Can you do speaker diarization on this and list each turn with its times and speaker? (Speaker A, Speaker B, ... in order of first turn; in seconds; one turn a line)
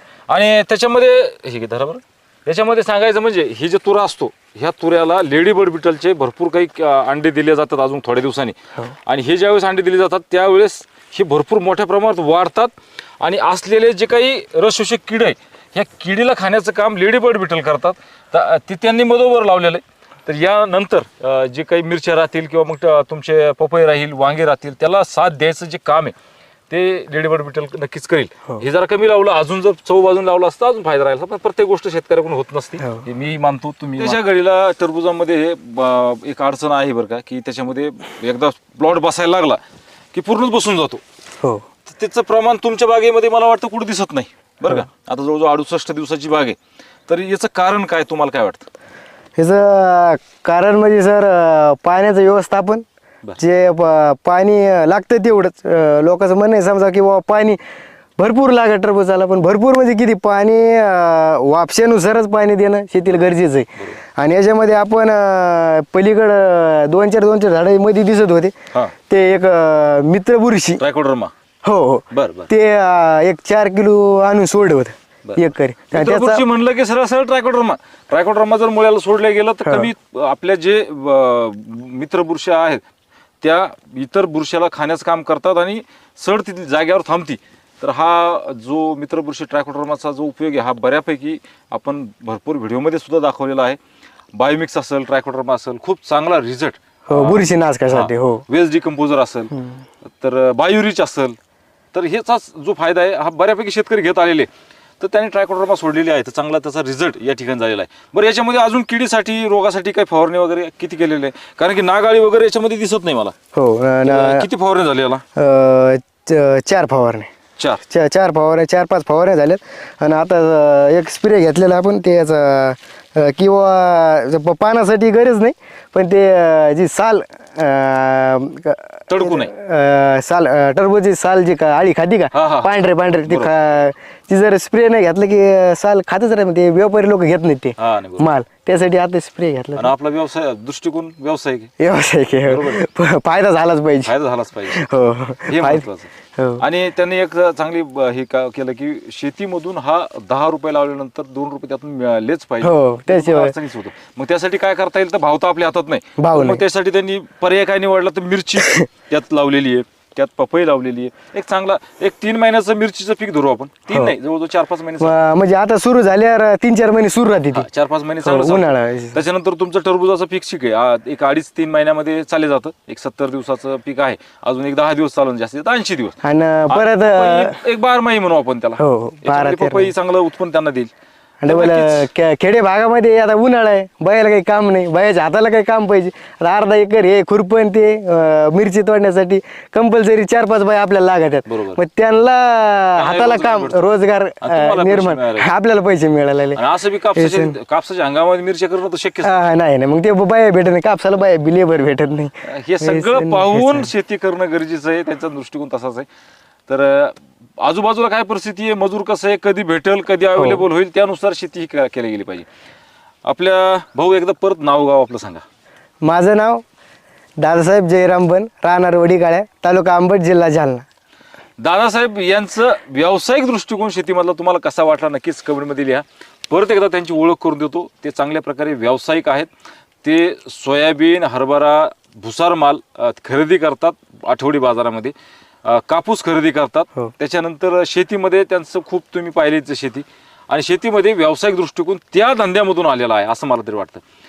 Speaker A: 0.3-26.1
Speaker A: 26.7-39.6
Speaker A: 40.1-41.0
Speaker A: 41.9-48.7
Speaker B: 49.4-52.8
Speaker B: 53.4-57.6
Speaker B: 58.2-70.8
Speaker A: 70.8-71.3
Speaker B: 71.6-76.4
Speaker A: 72.1-72.5
Speaker A: 75.2-82.8
Speaker B: 79.6-79.9
Speaker A: 83.4-93.8
Speaker A: 94.3-99.5
Speaker B: 97.1-98.4
Speaker B: 99.5-99.8
Speaker A: 100.0-101.4
Speaker A: 101.9-104.5
Speaker A: 105.0-113.3
Speaker B: 113.5-114.5
Speaker A: 114.0-115.2
Speaker B: 115.3-117.3
Speaker B: 117.9-139.9
Speaker A: 129.1-129.5
Speaker A: 132.3-132.7
Speaker A: 133.2-133.5
Speaker A: 137.8-138.3
Speaker A: 139.8-141.7
Speaker B: 141.8-144.1
Speaker A: 142.4-142.8
Speaker A: 144.1-144.9
Speaker B: 144.7-145.8
Speaker A: 145.4-165.1
Speaker B: 146.4-146.6
Speaker B: 152.6-153.5
Speaker B: 156.2-156.6
Speaker B: 163.9-164.2
Speaker B: 165.0-167.7
Speaker A: 167.5-176.2
Speaker B: 168.2-169.2
Speaker B: 176.2-177.6
Speaker A: 176.7-180.9
Speaker B: 178.8-179.9
Speaker B: 181.4-196.6
Speaker A: 181.5-182.1
Speaker A: 191.4-191.8
Speaker A: 192.9-193.9
Speaker A: 194.4-195.5
Speaker A: 196.5-199.3
Speaker B: 197.1-197.6
Speaker B: 199.2-203.9
Speaker A: 202.4-206.1
Speaker A: 206.7-212.5
Speaker B: 210.4-210.6
Speaker A: 213.2-215.4
Speaker B: 216.0-216.6
Speaker B: 217.4-220.8
Speaker A: 221.6-229.5
Speaker A: 230.0-235.1
Speaker A: 235.6-244.0